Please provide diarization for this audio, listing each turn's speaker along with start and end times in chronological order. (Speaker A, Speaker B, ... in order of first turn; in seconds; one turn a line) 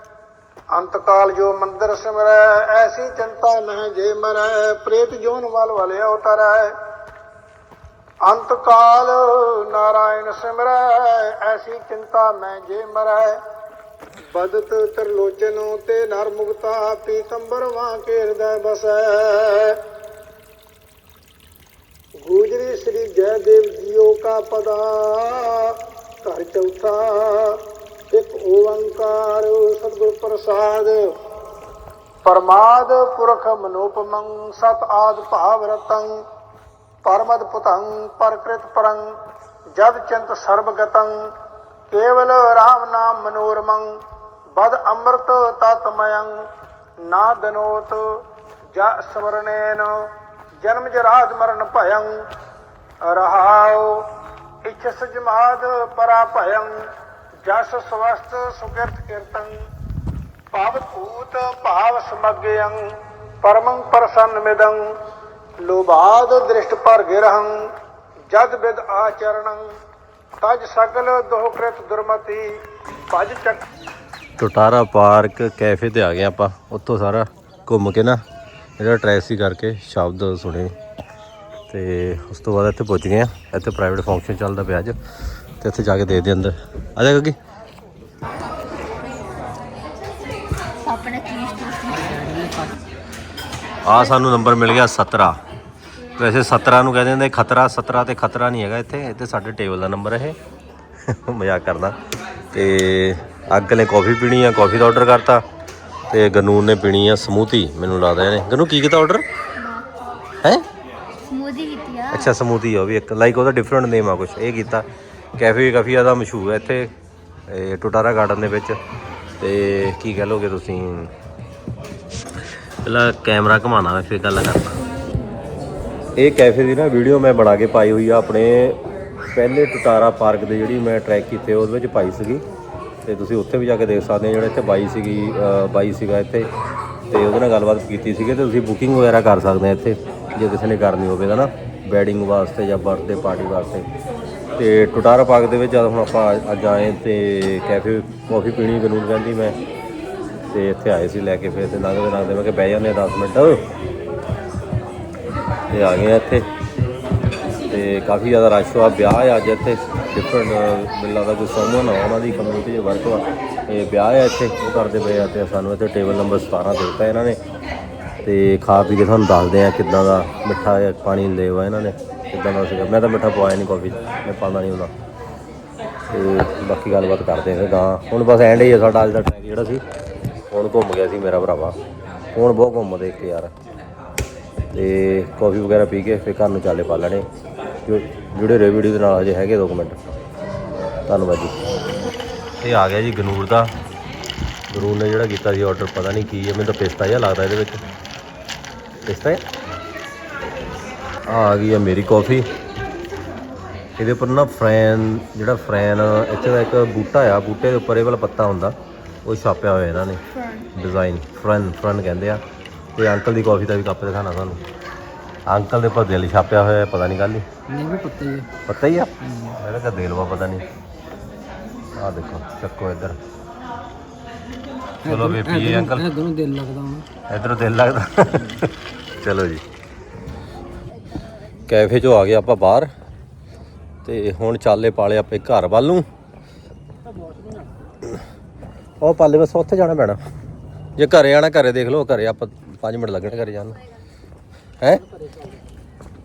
Speaker A: 0.7-6.8
Speaker A: 8.2-13.4
Speaker A: 14.3-19.8
Speaker A: 22.2-31.0
Speaker A: 32.2-36.1
Speaker A: 37.0-39.0
Speaker A: 39.8-41.1
Speaker A: 41.9-43.9
Speaker A: 44.5-46.3
Speaker A: 47.1-48.2
Speaker A: 48.7-49.9
Speaker A: 50.6-52.2
Speaker A: 53.0-54.1
Speaker A: 54.6-56.7
Speaker A: 57.4-59.5
Speaker A: 60.5-62.8
Speaker A: 63.4-64.8
Speaker A: 65.6-67.7
Speaker A: 68.3-69.6
Speaker A: 70.4-72.5
Speaker A: 73.1-73.7
Speaker B: 74.4-78.2
Speaker B: 78.8-80.7
Speaker B: 81.7-85.0
Speaker B: 85.6-87.4
Speaker C: 90.8-92.1
Speaker D: 91.9-92.8
Speaker B: 93.8-95.4
Speaker B: 96.2-100.4
Speaker B: 101.1-102.0
Speaker B: 102.5-105.4
Speaker B: 106.1-109.2
Speaker C: 109.6-110.0
Speaker C: 111.3-112.3
Speaker B: 112.1-114.8
Speaker B: 115.4-116.9
Speaker B: 117.5-118.8
Speaker B: 119.4-121.1
Speaker B: 122.8-124.7
Speaker B: 126.2-128.8
Speaker B: 129.3-132.4
Speaker B: 133.0-136.5
Speaker B: 137.1-143.8
Speaker B: 144.6-149.6
Speaker B: 150.5-153.6
Speaker B: 155.7-156.5
Speaker B: 157.7-167.4
Speaker B: 168.2-174.9
Speaker B: 176.1-179.8
Speaker B: 180.5-181.8
Speaker B: 182.3-183.5
Speaker B: 184.7-187.3
Speaker B: 187.8-190.2
Speaker B: 191.1-191.5
Speaker B: 192.6-193.7
Speaker B: 194.7-197.8
Speaker B: 199.1-199.4
Speaker B: 201.3-202.5
Speaker B: 204.0-210.2
Speaker C: 210.3-210.7
Speaker B: 210.7-212.4
Speaker B: 212.9-214.6
Speaker B: 215.5-217.4
Speaker D: 217.7-218.5
Speaker B: 218.7-220.6
Speaker D: 219.2-219.5
Speaker B: 222.0-223.2
Speaker B: 225.0-226.1
Speaker D: 225.1-227.1
Speaker B: 227.3-229.6
Speaker B: 231.7-232.9
Speaker B: 234.0-236.1
Speaker D: 237.0-237.7
Speaker B: 239.0-240.2
Speaker B: 241.0-243.8
Speaker D: 245.0-245.6